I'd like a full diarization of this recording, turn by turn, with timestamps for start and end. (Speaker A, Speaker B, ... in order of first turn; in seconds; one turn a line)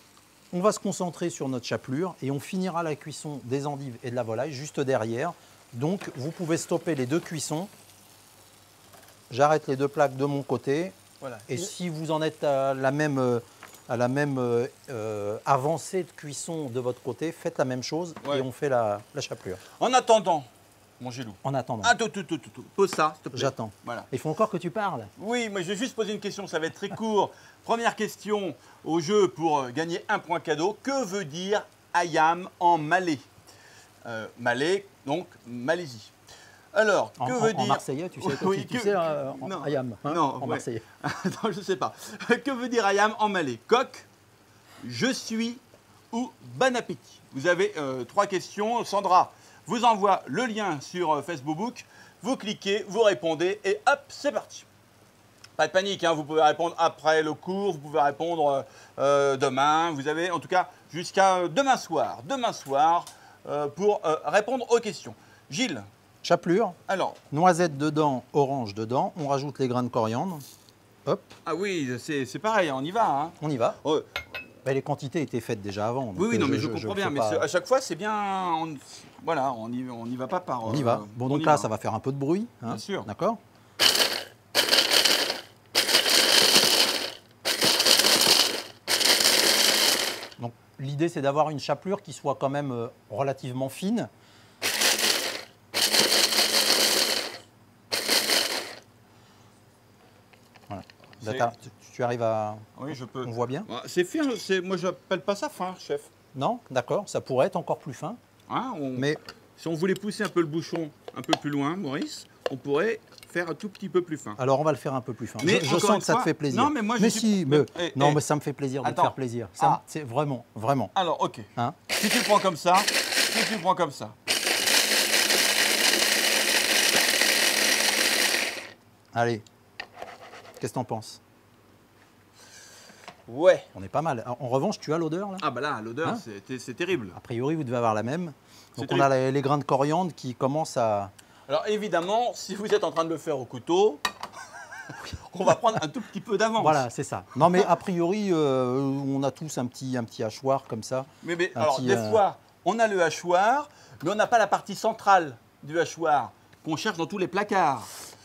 Speaker A: 0.5-7.7
Speaker A: 9.3-10.9
Speaker B: 11.2-11.6
Speaker A: 11.5-19.6
Speaker B: 19.8-20.5
Speaker B: 21.0-24.1
Speaker A: 21.4-21.9
Speaker A: 23.3-25.1
Speaker B: 25.2-33.3
Speaker B: 34.0-36.1
Speaker B: 36.7-44.1
Speaker A: 37.2-40.8
Speaker B: 44.8-54.7
Speaker B: 55.6-65.9
Speaker A: 66.2-66.8
Speaker B: 66.9-67.2
Speaker A: 67.3-70.4
Speaker A: 71.0-71.3
Speaker B: 71.4-74.1
Speaker A: 73.4-73.8
Speaker A: 74.6-77.4
Speaker B: 76.2-81.7
Speaker A: 80.6-83.4
Speaker B: 82.7-83.1
Speaker A: 90.4-94.1
Speaker A: 100.7-102.7
Speaker B: 101.2-101.5
Speaker B: 102.8-106.1
Speaker A: 103.2-103.7
Speaker A: 106.3-108.2
Speaker B: 108.5-114.4
Speaker A: 109.0-109.2
Speaker A: 114.4-120.9
Speaker B: 115.4-118.2
Speaker B: 118.8-119.8
Speaker B: 120.9-124.2
Speaker A: 129.1-129.4
Speaker A: 130.6-131.2
Speaker B: 133.3-133.7
Speaker A: 133.7-135.4
Speaker B: 135.4-137.2
Speaker A: 137.1-141.1
Speaker B: 138.8-139.1
Speaker B: 141.5-144.0
Speaker B: 144.8-146.8
Speaker A: 146.6-152.2
Speaker B: 151.2-157.9